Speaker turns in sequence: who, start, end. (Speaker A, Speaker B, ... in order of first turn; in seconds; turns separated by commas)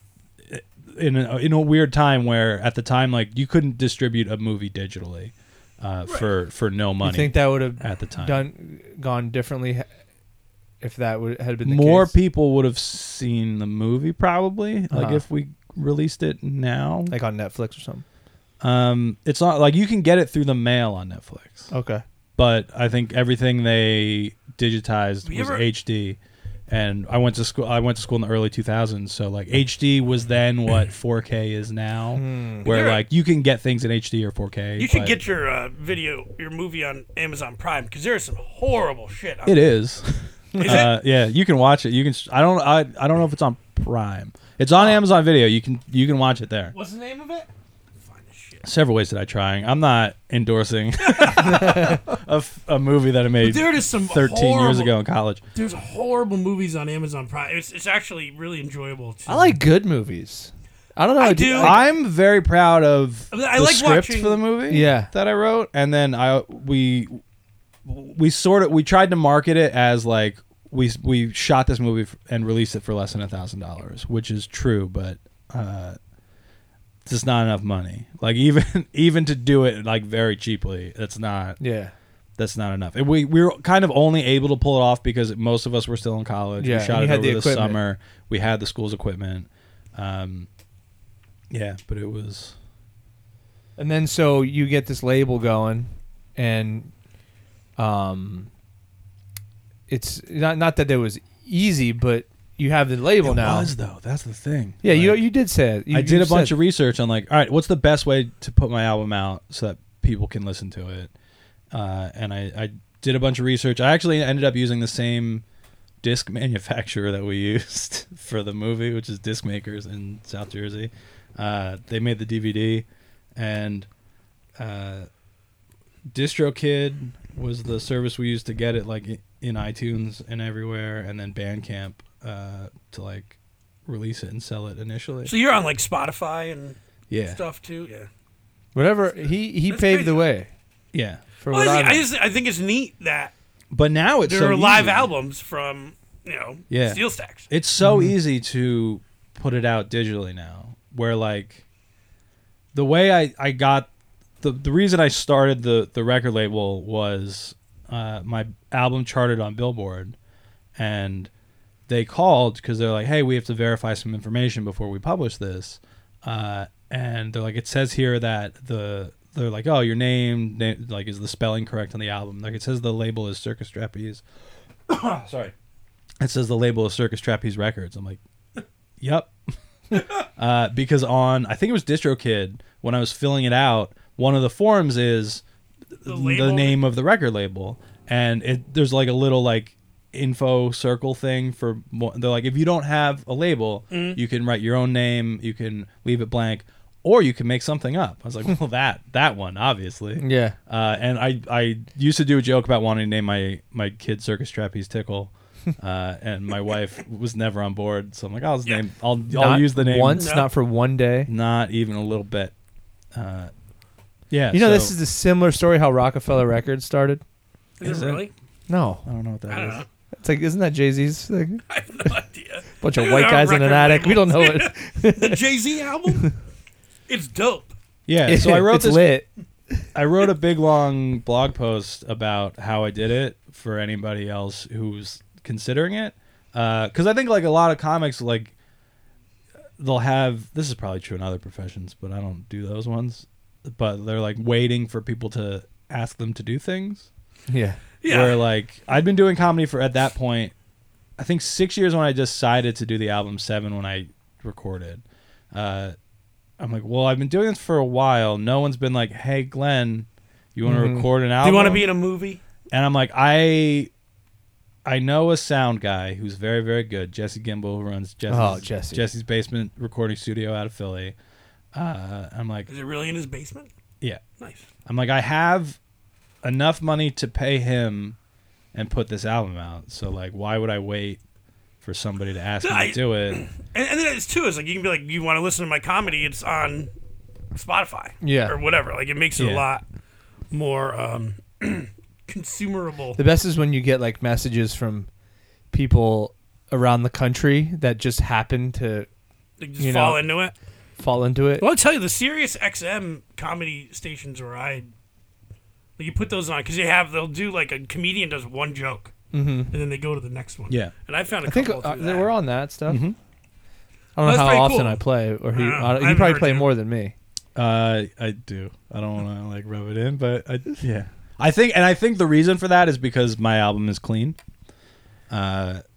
Speaker A: 0.5-8.4, Speaker B: 7.0-9.9, Speaker B: 10.8-12.1, Speaker A: 11.7-17.1, Speaker B: 14.9-15.2, Speaker B: 17.1-18.0, Speaker A: 18.6-21.7, Speaker B: 21.7-22.0, Speaker A: 22.4-26.2, Speaker C: 25.2-25.6, Speaker A: 26.7-35.2, Speaker B: 32.1-32.7, Speaker C: 32.6-33.0, Speaker C: 34.8-39.7, Speaker A: 39.5-46.8, Speaker B: 40.5-40.9, Speaker C: 40.6-41.0, Speaker C: 46.7-47.5, Speaker C: 48.0-48.6, Speaker A: 48.6-55.4, Speaker C: 51.0-52.1, Speaker C: 53.4-54.9, Speaker C: 55.5-59.6, Speaker B: 59.3-61.8, Speaker C: 61.2-61.8, Speaker A: 61.6-67.2, Speaker C: 63.3-64.4, Speaker B: 64.7-65.1, Speaker A: 67.8-76.0, Speaker A: 77.0-81.6, Speaker B: 81.6-81.9, Speaker A: 82.4-90.5, Speaker B: 86.6-87.8, Speaker A: 91.5-92.5, Speaker B: 93.8-96.9, Speaker B: 97.8-98.5, Speaker B: 99.9-103.7, Speaker A: 103.2-105.2, Speaker B: 104.8-106.5, Speaker A: 105.9-111.1, Speaker A: 111.7-115.4, Speaker A: 116.0-123.9, Speaker A: 124.6-125.1, Speaker A: 126.1-135.3, Speaker C: 135.2-138.1, Speaker A: 137.1-137.4, Speaker B: 138.8-140.5, Speaker C: 139.7-140.3, Speaker A: 140.9-141.2, Speaker B: 141.4-142.1, Speaker C: 141.5-143.3, Speaker A: 143.7-145.1, Speaker C: 144.2-147.5, Speaker A: 146.7-151.6, Speaker B: 147.8-148.2, Speaker A: 152.7-153.9, Speaker A: 154.4-160.2, Speaker A: 160.8-161.3, Speaker A: 161.9-174.2, Speaker A: 174.9-175.5, Speaker A: 176.2-178.2, Speaker A: 179.0-179.3, Speaker A: 179.9-185.4, Speaker A: 186.0-210.3, Speaker C: 186.1-186.8, Speaker C: 193.9-194.2, Speaker B: 200.2-200.6, Speaker B: 209.3-211.3, Speaker C: 210.2-210.5, Speaker A: 211.3-212.5, Speaker A: 213.1-213.5, Speaker A: 214.3-214.9, Speaker B: 214.5-217.2, Speaker C: 217.8-218.3, Speaker A: 217.8-218.3, Speaker B: 218.7-219.1, Speaker A: 219.1-219.8, Speaker C: 219.5-219.9, Speaker B: 220.2-221.6, Speaker C: 221.7-226.3, Speaker B: 222.8-225.4, Speaker C: 227.1-227.7, Speaker A: 228.1-229.1, Speaker B: 228.3-229.3, Speaker A: 229.9-238.5, Speaker A: 239.8-247.1, Speaker B: 247.5-247.8, Speaker C: 248.0-248.4, Speaker A: 248.1-250.5, Speaker A: 251.2-255.9, Speaker A: 256.6-261.9, Speaker B: 260.6-261.1, Speaker C: 261.4-262.4, Speaker A: 262.7-263.9, Speaker A: 264.9-271.1, Speaker B: 268.3-269.1, Speaker A: 271.7-272.7, Speaker C: 272.7-273.7, Speaker C: 274.4-274.7, Speaker A: 274.9-275.8, Speaker A: 276.4-278.2, Speaker A: 278.7-281.2, Speaker A: 281.8-283.4, Speaker C: 282.6-286.9, Speaker C: 287.5-289.8, Speaker B: 288.2-288.6, Speaker A: 289.4-289.6, Speaker C: 290.5-293.2, Speaker B: 293.2-295.1, Speaker B: 295.7-299.1, Speaker C: 299.6-300.5, Speaker B: 299.8-300.2, Speaker B: 301.0-301.7, Speaker C: 301.6-304.9, Speaker C: 306.0-309.1, Speaker B: 309.3-309.7, Speaker C: 309.7-312.3, Speaker B: 311.5-313.0, Speaker A: 312.9-313.2, Speaker B: 314.2-317.1, Speaker C: 314.2-316.7, Speaker A: 317.6-324.4, Speaker A: 325.3-325.8